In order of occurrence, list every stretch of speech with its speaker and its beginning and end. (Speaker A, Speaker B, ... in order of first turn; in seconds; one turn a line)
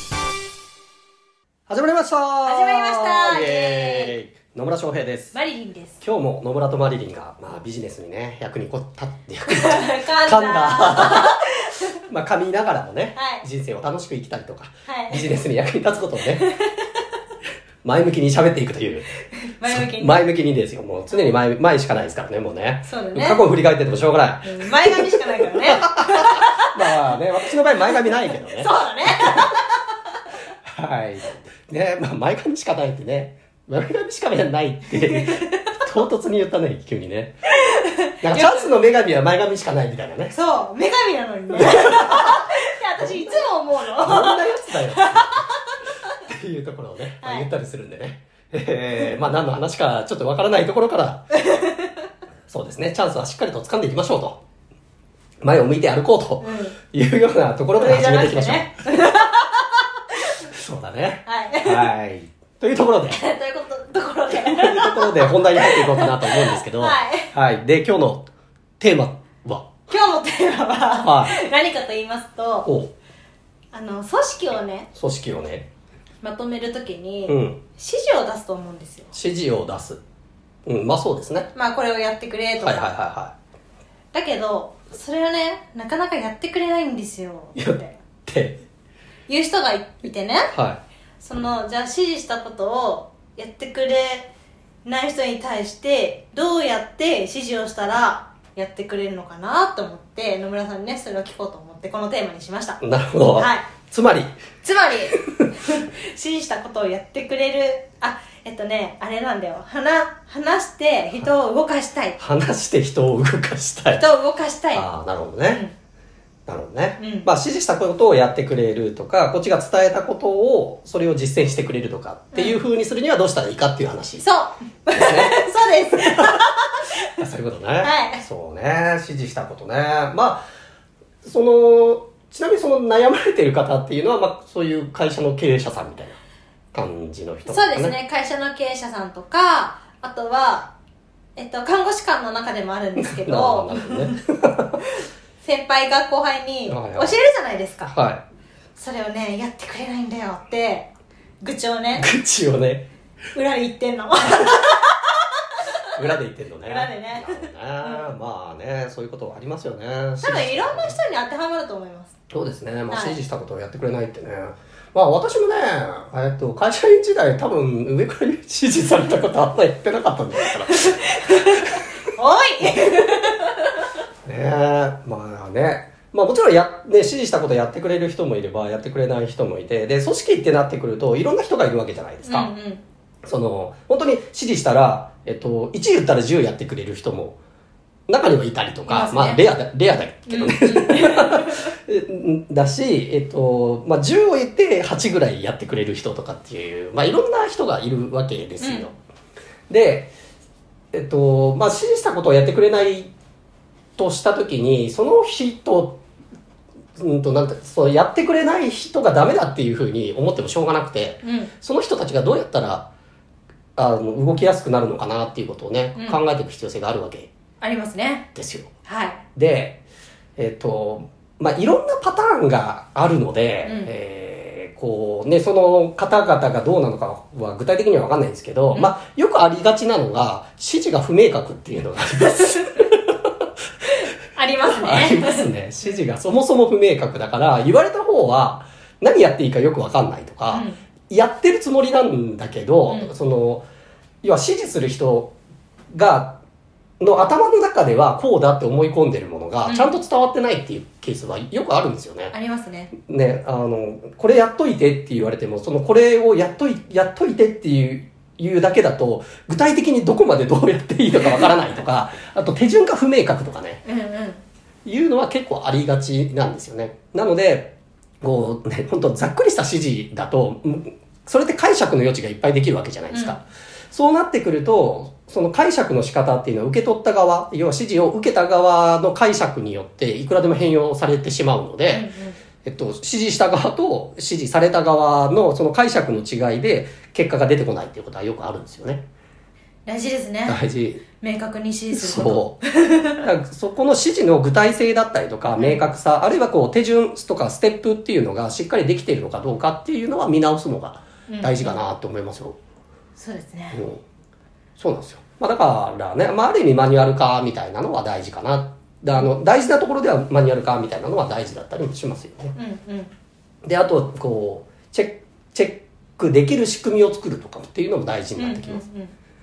Speaker A: 1.7-5.3
Speaker B: 2.4-4.1
Speaker B: 5.3-6.0
Speaker A: 6.0-11.4
Speaker B: 9.5-11.8
Speaker A: 12.0-16.5
Speaker B: 13.1-13.4
Speaker B: 14.8-15.3
Speaker B: 16.4-16.7
Speaker A: 17.8-19.1
Speaker B: 19.6-20.2
Speaker A: 19.6-29.5
Speaker B: 22.9-23.4
Speaker B: 24.4-26.7
Speaker B: 28.4-29.6
Speaker A: 30.6-37.5
Speaker B: 35.1-35.7
Speaker B: 37.6-38.8
Speaker A: 38.2-40.3
Speaker B: 40.3-45.5
Speaker A: 41.5-42.4
Speaker A: 43.0-43.4
Speaker A: 44.0-45.5
Speaker A: 46.2-51.3
Speaker B: 47.2-47.5
Speaker B: 51.3-51.9
Speaker A: 52.5-54.4
Speaker A: 55.4-58.8
Speaker B: 56.4-56.8
Speaker B: 57.7-59.8
Speaker A: 60.4-63.2
Speaker B: 61.2-61.9
Speaker B: 63.1-67.3
Speaker A: 64.3-68.3
Speaker A: 68.8-69.8
Speaker B: 69.9-72.7
Speaker A: 71.0-71.4
Speaker A: 72.6-72.9
Speaker B: 73.7-74.9
Speaker A: 74.9-75.7
Speaker B: 76.2-79.1
Speaker A: 77.3-77.6
Speaker A: 79.1-80.0
Speaker A: 80.7-81.5
Speaker B: 81.5-82.8
Speaker A: 82.6-83.3
Speaker B: 84.1-88.0
Speaker A: 87.5-88.6
Speaker B: 89.3-90.5
Speaker A: 90.5-90.8
Speaker B: 91.2-94.3
Speaker B: 94.8-102.8
Speaker A: 102.8-104.3
Speaker B: 103.3-103.7
Speaker B: 104.6-112.2
Speaker A: 112.2-114.0
Speaker B: 113.9-114.8
Speaker A: 114.7-115.6
Speaker A: 116.5-124.2
Speaker B: 117.0-117.3
Speaker B: 124.2-126.7
Speaker A: 124.9-126.3
Speaker A: 127.1-130.5
Speaker B: 127.8-128.2
Speaker A: 131.2-136.2
Speaker A: 136.7-137.9
Speaker B: 137.4-140.7
Speaker B: 141.3-144.2
Speaker A: 143.0-144.8
Speaker B: 145.4-147.9
Speaker A: 146.7-147.1
Speaker A: 147.8-148.2
Speaker B: 148.8-150.9
Speaker B: 151.4-152.1
Speaker A: 152.0-152.9
Speaker B: 153.3-155.2
Speaker A: 155.9-161.0
Speaker B: 156.6-158.1
Speaker B: 160.2-162.1
Speaker A: 162.3-171.7
Speaker B: 162.9-163.2
Speaker B: 170.8-173.7
Speaker A: 174.2-182.5
Speaker B: 182.2-182.8
Speaker A: 183.2-187.4
Speaker A: 188.1-198.9
Speaker B: 188.8-189.4
Speaker B: 190.3-191.7
Speaker B: 198.6-198.9
Speaker A: 199.7-200.1
Speaker A: 200.9-203.1
Speaker A: 204.0-206.0
Speaker A: 207.0-212.9
Speaker B: 211.2-211.5
Speaker A: 213.8-217.3
Speaker B: 217.6-218.3
Speaker A: 218.3-218.7
Speaker B: 218.8-219.2
Speaker A: 219.3-219.8
Speaker A: 220.4-233.1
Speaker B: 223.6-223.9
Speaker B: 234.3-235.5
Speaker A: 234.7-243.7
Speaker B: 240.5-240.8
Speaker A: 244.2-245.3
Speaker A: 245.9-246.4
Speaker A: 247.0-252.3
Speaker B: 249.6-249.9
Speaker B: 252.3-252.9
Speaker A: 252.9-263.8
Speaker B: 263.8-264.4
Speaker A: 264.8-282.1
Speaker B: 273.1-273.4
Speaker B: 281.9-282.4
Speaker A: 282.6-289.0
Speaker B: 289.9-290.6
Speaker A: 290.4-291.1
Speaker B: 291.2-293.2
Speaker A: 291.9-292.6
Speaker A: 293.2-302.6
Speaker B: 295.6-295.8
Speaker B: 301.3-301.8
Speaker B: 303.1-303.8
Speaker A: 303.7-304.0
Speaker A: 304.8-312.6
Speaker B: 312.6-313.1
Speaker A: 313.6-318.8
Speaker B: 318.4-319.1